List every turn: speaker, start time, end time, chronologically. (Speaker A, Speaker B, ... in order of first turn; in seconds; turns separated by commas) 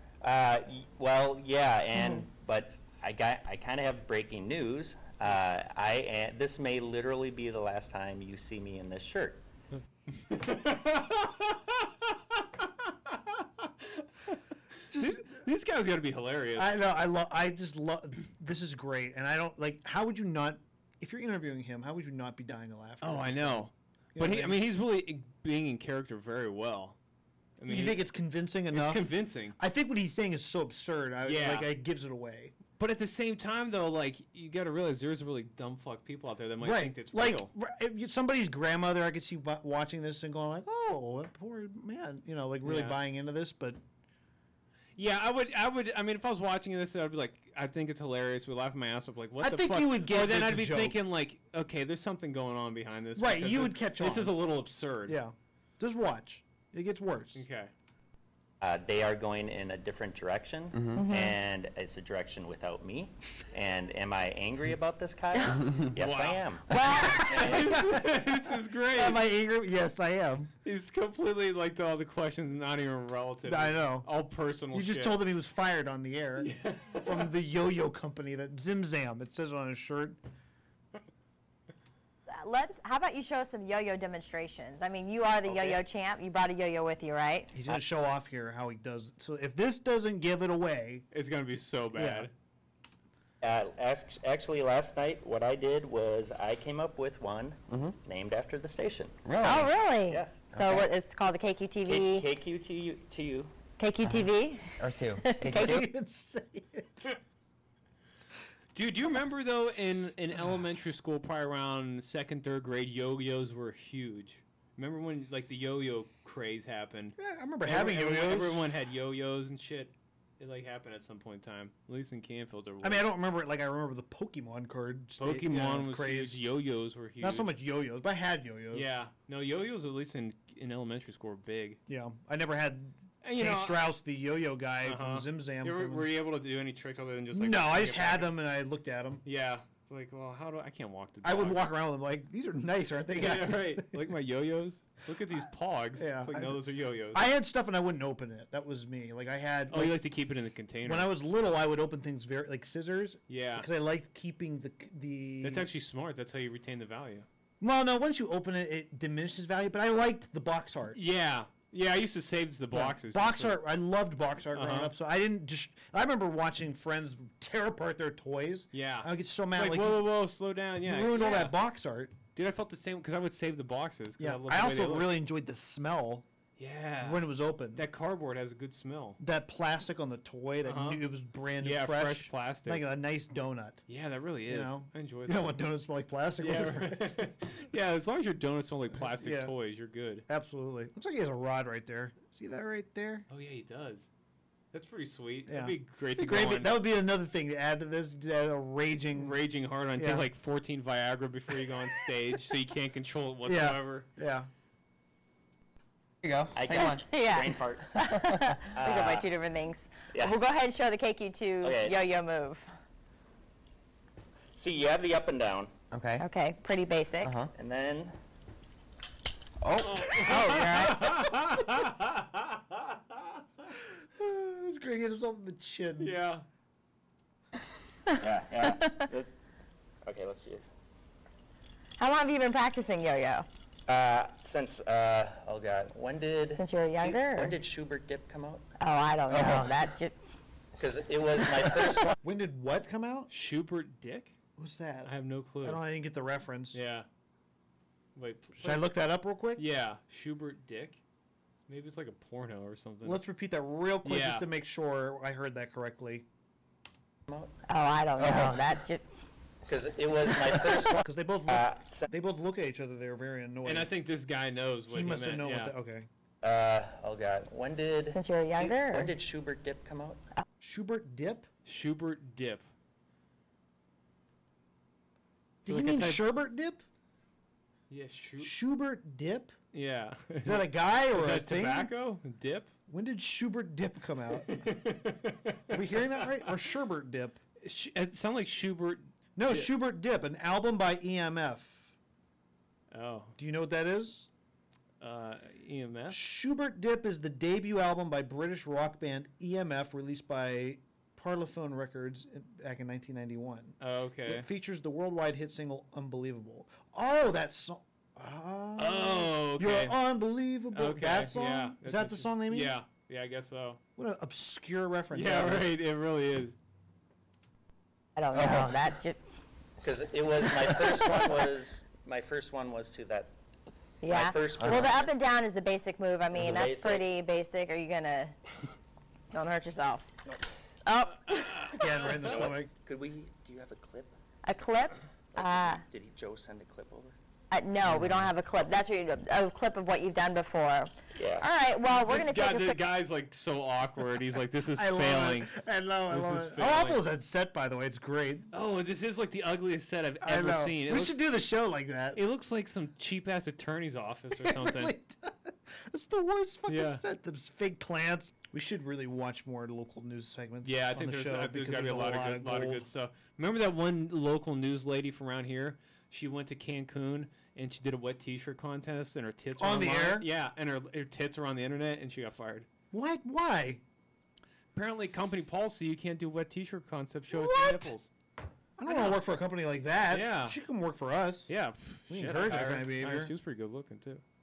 Speaker A: 0.2-9.4, Speaker B: 1.9-2.2, Speaker C: 10.3-14.3, Speaker D: 14.9-15.4, Speaker C: 15.0-16.7, Speaker D: 16.6-24.6, Speaker C: 23.0-26.9, Speaker C: 27.6-28.1, Speaker D: 27.7-32.5, Speaker C: 28.7-29.6, Speaker C: 31.2-31.7, Speaker C: 32.8-37.5, Speaker D: 36.6-43.8, Speaker C: 42.6-43.0, Speaker C: 45.0-55.2, Speaker D: 49.4-51.0, Speaker D: 53.2-54.3, Speaker D: 55.1-57.4, Speaker C: 57.3-57.7, Speaker A: 58.6-67.8, Speaker B: 60.9-61.4, Speaker B: 65.3-65.6, Speaker C: 66.0-69.2, Speaker B: 66.7-67.6, Speaker D: 68.9-70.5, Speaker C: 70.6-75.2, Speaker D: 73.4-74.1, Speaker D: 74.7-76.5, Speaker C: 76.4-77.3, Speaker D: 77.0-80.2, Speaker B: 82.3-87.5, Speaker C: 85.4-85.8, Speaker D: 87.5-91.0, Speaker C: 91.1-92.3, Speaker D: 91.9-92.3, Speaker A: 93.4-100.5, Speaker E: 97.7-97.9, Speaker E: 99.2-99.7, Speaker B: 99.4-102.3, Speaker E: 100.5-100.9, Speaker A: 101.8-103.5, Speaker B: 103.8-105.8, Speaker E: 104.0-105.9, Speaker D: 105.5-107.1, Speaker C: 108.7-123.1, Speaker D: 117.2-118.6, Speaker D: 122.8-126.4, Speaker C: 125.2-127.5, Speaker D: 127.2-128.9, Speaker C: 128.7-131.8, Speaker D: 131.9-136.1, Speaker C: 133.2-133.8, Speaker C: 134.8-138.3, Speaker D: 137.3-139.2, Speaker C: 139.2-141.7, Speaker D: 141.2-144.0, Speaker C: 143.1-147.3, Speaker D: 146.0-150.0, Speaker C: 149.7-151.1, Speaker D: 150.8-155.7, Speaker C: 153.3-153.7, Speaker C: 155.4-157.2, Speaker D: 157.6-161.0, Speaker C: 160.9-163.6, Speaker D: 162.7-170.1, Speaker C: 164.5-164.9, Speaker C: 168.7-171.6, Speaker D: 170.8-172.1, Speaker C: 172.3-175.2, Speaker D: 174.2-176.2, Speaker C: 176.6-179.2, Speaker D: 177.0-177.8, Speaker D: 179.2-183.8, Speaker C: 180.6-181.0, Speaker C: 181.6-182.8, Speaker C: 183.9-185.5, Speaker D: 184.5-187.2, Speaker C: 186.4-190.2, Speaker D: 188.9-189.5, Speaker D: 190.3-193.2, Speaker C: 193.3-194.1, Speaker C: 194.7-196.8, Speaker D: 195.5-199.4, Speaker C: 199.1-204.1, Speaker D: 199.9-200.3, Speaker D: 203.4-204.5, Speaker E: 206.2-206.9, Speaker A: 206.5-209.3, Speaker B: 206.7-212.6, Speaker A: 210.1-210.4, Speaker A: 211.6-212.0, Speaker A: 214.6-215.7, Speaker E: 215.9-216.2, Speaker B: 216.2-217.3, Speaker E: 217.2-217.5, Speaker A: 217.5-218.2, Speaker E: 219.6-221.1, Speaker C: 219.8-223.2, Speaker B: 220.3-221.0, Speaker D: 223.9-226.1, Speaker C: 226.0-226.4, Speaker A: 228.2-229.3, Speaker B: 228.6-229.0, Speaker A: 230.1-230.6, Speaker B: 232.0-233.4, Speaker A: 233.9-238.6, Speaker B: 236.5-237.6, Speaker B: 238.8-240.1, Speaker A: 240.8-242.1, Speaker B: 241.5-241.9, Speaker D: 242.2-243.3, Speaker C: 243.3-244.3, Speaker D: 244.6-246.8, Speaker C: 245.0-245.8, Speaker C: 246.7-247.1, Speaker C: 248.1-248.9, Speaker D: 248.6-249.6, Speaker C: 249.5-251.0, Speaker C: 251.7-253.2, Speaker D: 253.0-256.2, Speaker C: 254.0-254.5, Speaker A: 257.3-257.5, Speaker B: 257.7-259.0, Speaker A: 259.7-262.1, Speaker D: 261.0-263.9, Speaker C: 263.6-265.7, Speaker D: 264.9-266.1, Speaker A: 266.4-270.2, Speaker B: 268.1-269.1, Speaker D: 270.6-271.5, Speaker C: 271.6-272.7, Speaker C: 275.6-276.2, Speaker D: 275.6-276.8, Speaker C: 277.9-278.5, Speaker D: 278.4-279.5, Speaker C: 279.7-282.7, Speaker D: 280.4-281.9, Speaker D: 282.9-284.7, Speaker C: 284.3-286.5, Speaker D: 285.7-287.4, Speaker C: 287.6-289.7, Speaker D: 289.4-291.8, Speaker C: 292.9-293.3, Speaker D: 293.4-294.3, Speaker C: 295.0-296.2, Speaker D: 296.1-312.8, Speaker C: 303.8-304.5, Speaker C: 308.8-310.0, Speaker C: 310.7-313.8, Speaker D: 314.0-315.8, Speaker C: 315.1-316.5, Speaker B: 318.1-319.2, Speaker E: 318.3-318.6, Speaker A: 319.8-323.3, Speaker B: 324.0-328.4, Speaker A: 324.0-325.1, Speaker A: 326.4-327.1, Speaker B: 329.3-330.1, Speaker B: 330.8-331.8, Speaker C: 331.3-332.2, Speaker D: 331.7-332.7, Speaker A: 332.1-334.1, Speaker B: 334.4-335.8, Speaker A: 335.3-337.2, Speaker B: 337.5-342.8, Speaker A: 341.1-341.5, Speaker C: 341.9-345.5, Speaker D: 344.7-348.5, Speaker C: 346.1-347.0, Speaker C: 348.5-351.2, Speaker D: 350.2-352.2, Speaker C: 352.1-354.9, Speaker D: 354.3-362.9, Speaker C: 356.7-357.0, Speaker C: 360.6-372.7, Speaker D: 369.6-370.3, Speaker D: 372.9-373.8, Speaker C: 374.7-378.1, Speaker D: 377.3-377.9, Speaker D: 378.8-381.5, Speaker C: 378.8-379.2, Speaker C: 380.1-380.6, Speaker C: 381.5-384.2, Speaker D: 382.1-383.3